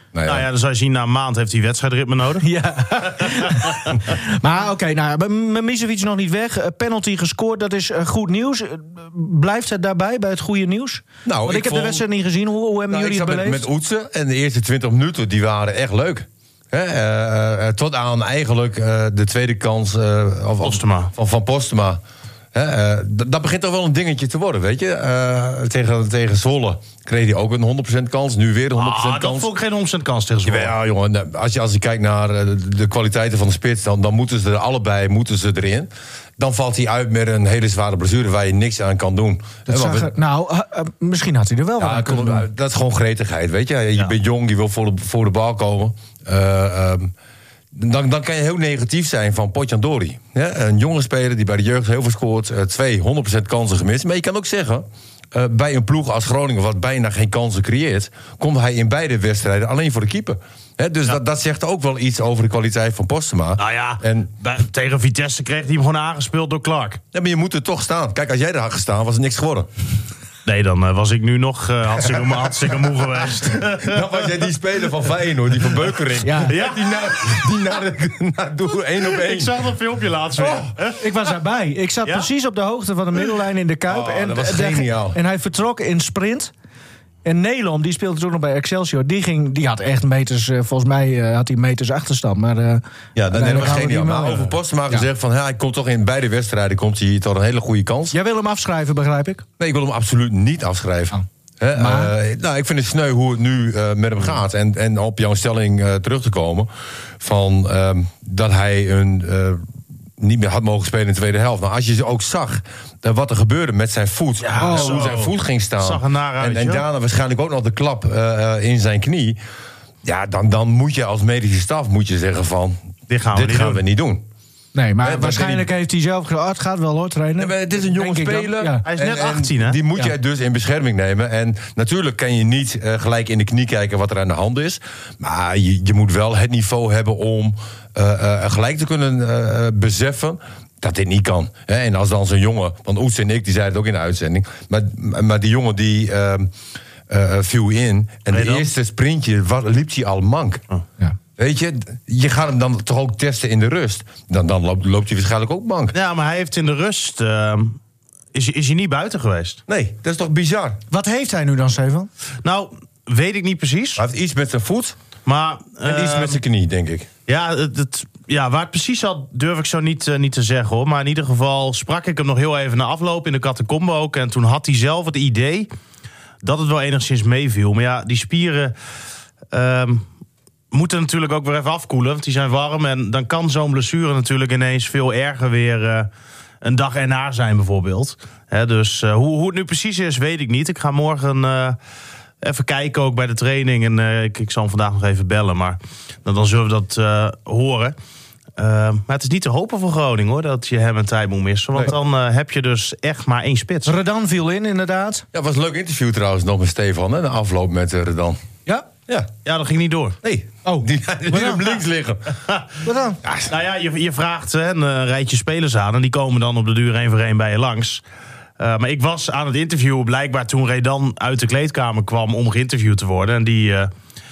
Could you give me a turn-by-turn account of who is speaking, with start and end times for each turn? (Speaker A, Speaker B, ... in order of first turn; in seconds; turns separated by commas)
Speaker A: 0.1-0.5, Speaker B: 0.3-2.5, Speaker C: 2.4-13.7, Speaker B: 3.1-4.0, Speaker A: 11.2-12.0, Speaker A: 12.9-22.0, Speaker B: 20.6-21.1, Speaker A: 22.5-29.5, Speaker B: 28.8-30.7, Speaker A: 30.4-40.1, Speaker C: 39.7-42.5, Speaker A: 41.8-47.1, Speaker A: 47.7-64.3, Speaker B: 63.6-67.0, Speaker A: 67.1-69.7, Speaker B: 70.5-74.3, Speaker A: 73.8-79.6, Speaker C: 76.2-76.5, Speaker B: 76.5-77.4, Speaker B: 79.0-81.3, Speaker C: 80.4-86.5, Speaker A: 83.9-85.2, Speaker C: 87.2-95.1, Speaker A: 93.2-98.2, Speaker C: 98.1-99.5, Speaker A: 99.6-109.6, Speaker C: 101.8-102.1, Speaker A: 110.2-119.4, Speaker B: 114.4-116.8, Speaker C: 114.6-115.1, Speaker A: 120.0-122.8, Speaker B: 123.1-123.8, Speaker A: 123.3-124.3, Speaker C: 124.8-128.8, Speaker A: 125.0-125.7, Speaker A: 127.4-146.5, Speaker B: 128.9-129.8, Speaker A: 147.1-150.6, Speaker B: 148.3-148.7, Speaker A: 151.4-155.9, Speaker B: 155.9-157.8, Speaker B: 158.3-159.6, Speaker A: 159.7-160.8, Speaker C: 160.9-162.1, Speaker B: 162.4-164.0, Speaker A: 164.0-164.9, Speaker B: 165.3-166.4, Speaker A: 165.8-167.1, Speaker B: 167.3-175.7, Speaker B: 176.4-178.7, Speaker B: 179.5-180.1, Speaker B: 180.7-186.1, Speaker B: 186.6-191.8, Speaker B: 192.4-197.9, Speaker B: 198.6-204.0, Speaker C: 203.9-205.2, Speaker A: 205.3-208.4, Speaker B: 209.4-210.2, Speaker A: 210.2-212.4, Speaker C: 210.7-211.7, Speaker C: 212.8-213.2, Speaker A: 213.2-213.5, Speaker B: 213.5-218.0, Speaker B: 218.6-223.9